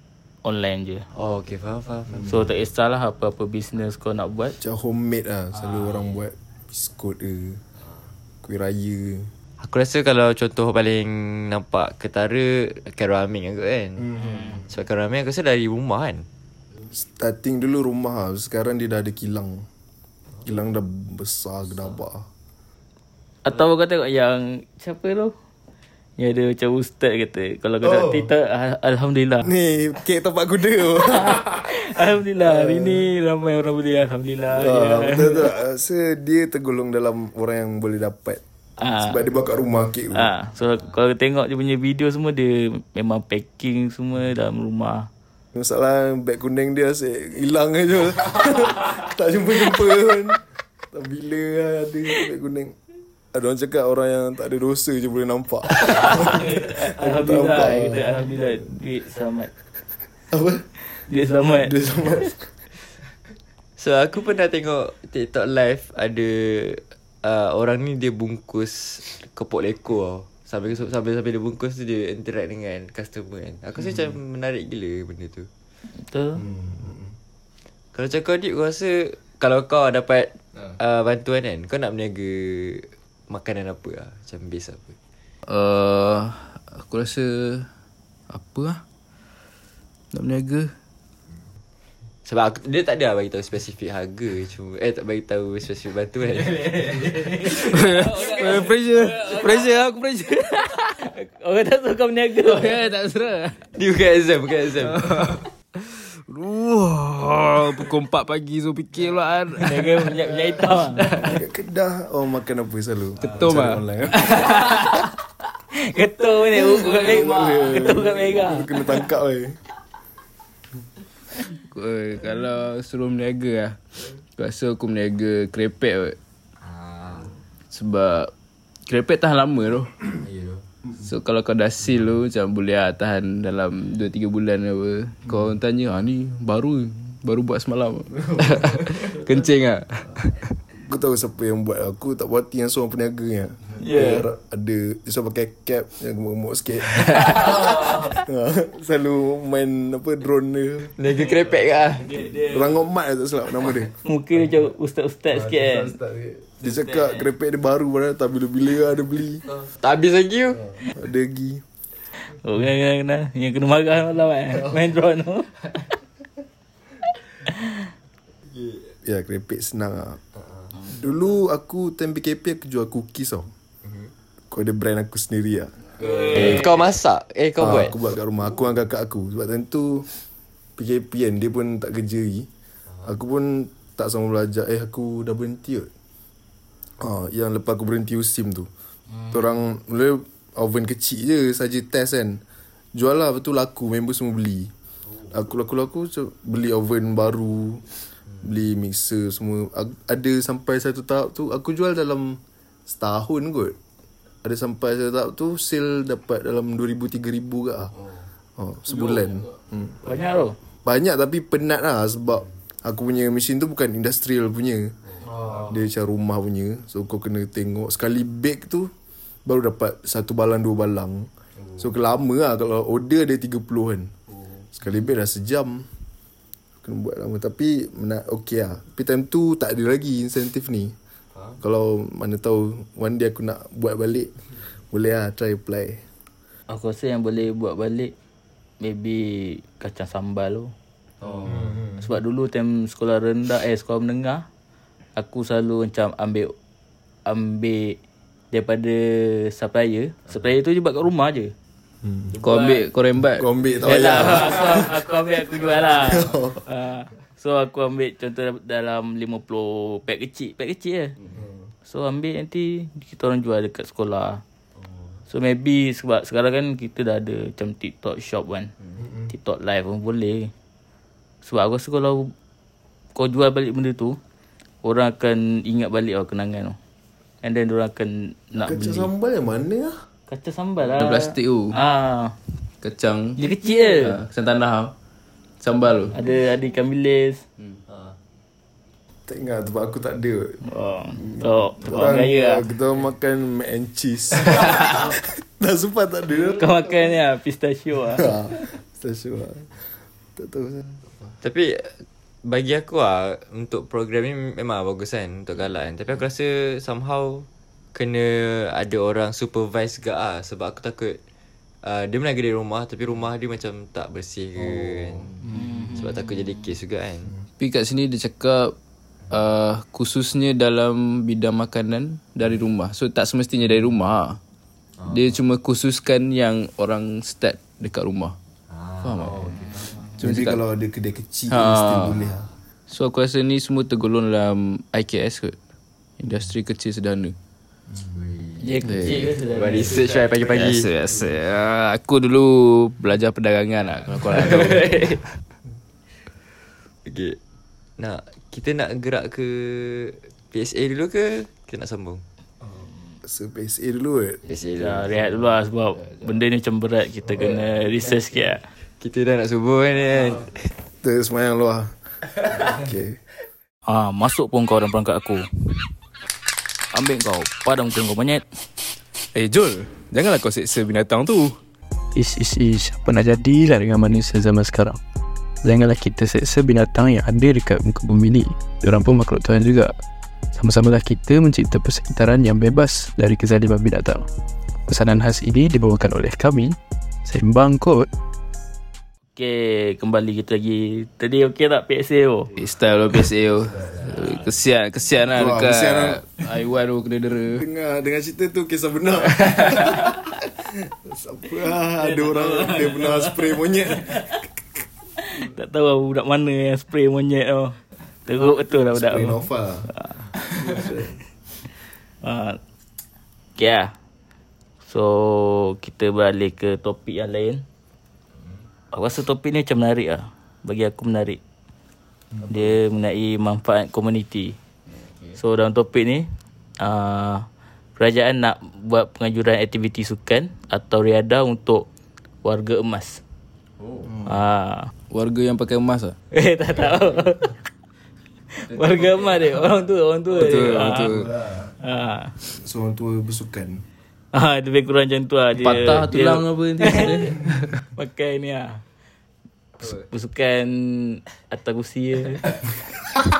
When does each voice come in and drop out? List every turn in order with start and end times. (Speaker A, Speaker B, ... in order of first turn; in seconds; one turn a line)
Speaker A: 0.4-1.1
Speaker B: 1.1-2.3
Speaker A: 2.2-4.6
Speaker C: 4.6-7.6
Speaker C: 8.4-9.3
Speaker B: 9.6-16.2
Speaker C: 14.2-14.6
Speaker A: 14.2-14.6
Speaker C: 16.9-19.7
Speaker C: 20.4-22.3
Speaker A: 23.4-25.3
Speaker A: 26.2-29.5
Speaker C: 27.8-28.3
Speaker C: 29.4-31.8
Speaker A: 31.0-35.6
Speaker C: 32.4-33.0
Speaker C: 34.5-40.3
Speaker A: 38.8-39.2
Speaker A: 40.1-45.1
Speaker C: 45.5-52.8
Speaker C: 53.3-58.5
Speaker A: 55.9-59.5
Speaker C: 60.3-62.5
Speaker A: 60.8-62.3
Speaker B: 63.8-75.5
Speaker A: 75.9-76.4
Speaker C: 76.4-77.1
Speaker B: 77.9-85.0
Speaker D: 85.5-87.7
Speaker D: 88.3-88.8
Speaker D: 90.1-90.7
Speaker B: 92.2-97.5
Speaker A: 97.0-99.7
Speaker D: 97.3-101.1
Speaker A: 100.3-102.8
Speaker D: 102.4-103.7
Speaker B: 103.8-105.3
Speaker D: 104.8-110.2
Speaker A: 109.5-111.1
Speaker D: 110.9-111.3
Speaker C: 111.1-114.9
Speaker D: 113.2-115.1
Speaker A: 115.7-118.8
Speaker C: 116.5-119.6
Speaker D: 121.6-123.8
Speaker D: 124.4-126.2
Speaker B: 126.6-127.3
Speaker D: 127.7-128.3
Speaker D: 128.9-130.0
Speaker B: 130.2-130.6
Speaker D: 131.0-140.6
Speaker C: 140.8-150.9
Speaker A: 143.8-144.2
Speaker B: 151.0-152.2
Speaker A: 152.1-152.7
Speaker C: 152.3-154.5
Speaker A: 154.0-156.0
Speaker C: 155.3-159.4
Speaker B: 159.7-160.7
Speaker C: 160.8-161.6
Speaker A: 162.2-165.8
Speaker A: 167.4-167.8
Speaker C: 169.0-170.2
Speaker C: 170.8-173.5
Speaker C: 174.5-175.8
Speaker B: 176.0-178.0
Speaker C: 176.3-176.6
Speaker C: 177.6-180.1
Speaker C: 180.8-182.5
Speaker C: 183.0-185.9
Speaker C: 187.0-188.7
Speaker C: 189.3-192.4
Speaker C: 192.9-194.7
Speaker C: 195.3-197.8
Speaker C: 198.4-203.8
Speaker C: 204.4-207.9
Speaker C: 208.6-209.9
Speaker A: 210.0-210.6
Speaker C: 210.8-214.9
Speaker C: 215.5-218.9
Speaker C: 219.4-224.1
Speaker C: 224.7-225.9
Speaker C: 226.8-230.9
Speaker C: 231.6-234.3
Speaker C: 234.9-236.1
Speaker A: 236.7-238.1
Speaker A: 238.8-240.7
Speaker B: 241.2-241.8
Speaker C: 241.4-242.0
Speaker A: 242.0-244.4
Speaker A: 245.2-246.5
Speaker A: 247.2-248.0
Speaker A: 248.5-251.5
Speaker C: 252.0-252.3
Speaker D: 252.4-254.3
Speaker A: 252.4-252.8
Speaker C: 253.3-255.0
Speaker A: 253.8-261.1
Speaker C: 256.0-256.6
Speaker A: 261.9-264.4
Speaker A: 265.3-268.7
Speaker C: 269.0-269.2
Speaker A: 269.3-270.5
Speaker A: 271.4-272.3
Speaker A: 273.1-274.2
Speaker A: 274.8-276.8
Speaker A: 277.4-279.1
Speaker C: 278.6-279.9
Speaker A: 280.3-282.4
Speaker D: 280.9-281.8
Speaker D: 282.8-283.4
Speaker A: 283.4-284.2
Speaker D: 283.9-284.9
Speaker D: 285.6-286.1
Speaker A: 286.1-287.4
Speaker C: 289.3-290.6
Speaker A: 290.6-292.7
Speaker C: 291.3-296.8
Speaker A: 296.3-298.6
Speaker C: 298.1-300.9
Speaker B: 301.4-311.2
Speaker B: 311.8-315.4
Speaker A: 315.5-316.3
Speaker B: 315.9-317.3
Speaker D: 317.6-318.8
Speaker D: 319.3-324.4
Speaker D: 325.1-328.4
Speaker B: 328.7-330.1
Speaker D: 329.0-330.6
Speaker C: 330.2-332.5
Speaker D: 331.5-332.2
Speaker D: 332.9-335.6
Speaker D: 336.2-337.3
Speaker B: 338.1-338.8
Speaker A: 338.6-340.1
Speaker D: 338.8-339.4
Speaker B: 339.4-340.9
Speaker D: 340.4-345.2
Speaker B: 347.0-347.4
Speaker B: 348.0-352.2
Speaker C: 353.2-354.4
Speaker B: 354.5-355.1
Speaker A: 354.8-358.6
Speaker B: 359.0-360.7
Speaker C: 361.0-361.9
Speaker C: 362.5-363.2
Speaker A: 363.9-365.8
Speaker A: 366.9-368.4
Speaker D: 369.3-371.6
Speaker E: 372.1-375.0
Speaker E: 375.6-379.9
Speaker E: 380.5-384.3
Speaker E: 384.9-388.1
Speaker A: 389.4-392.5
Speaker D: 392.5-397.6
Speaker C: 395.3-396.2
Speaker C: 397.6-404.5
Speaker A: 402.0-404.4
Speaker A: 405.2-410.8
Speaker C: 408.9-409.9
Speaker C: 410.5-411.1
Speaker A: 412.2-412.6
Speaker A: 413.6-413.9
Speaker A: 414.8-417.6
Speaker A: 418.9-421.4
Speaker A: 422.5-424.6
Speaker A: 425.4-426.3
Speaker A: 426.8-427.4
Speaker A: 428.0-431.9
Speaker A: 432.4-433.2
Speaker A: 434.2-434.9
Speaker D: 435.1-436.1
Speaker A: 436.3-437.5
Speaker A: 438.6-441.3
Speaker D: 438.7-439.2
Speaker D: 440.3-441.3
Speaker C: 440.9-441.7
Speaker A: 441.8-442.3
Speaker C: 442.5-443.8
Speaker A: 444.3-448.8
Speaker D: 445.6-447.8
Speaker A: 449.8-452.4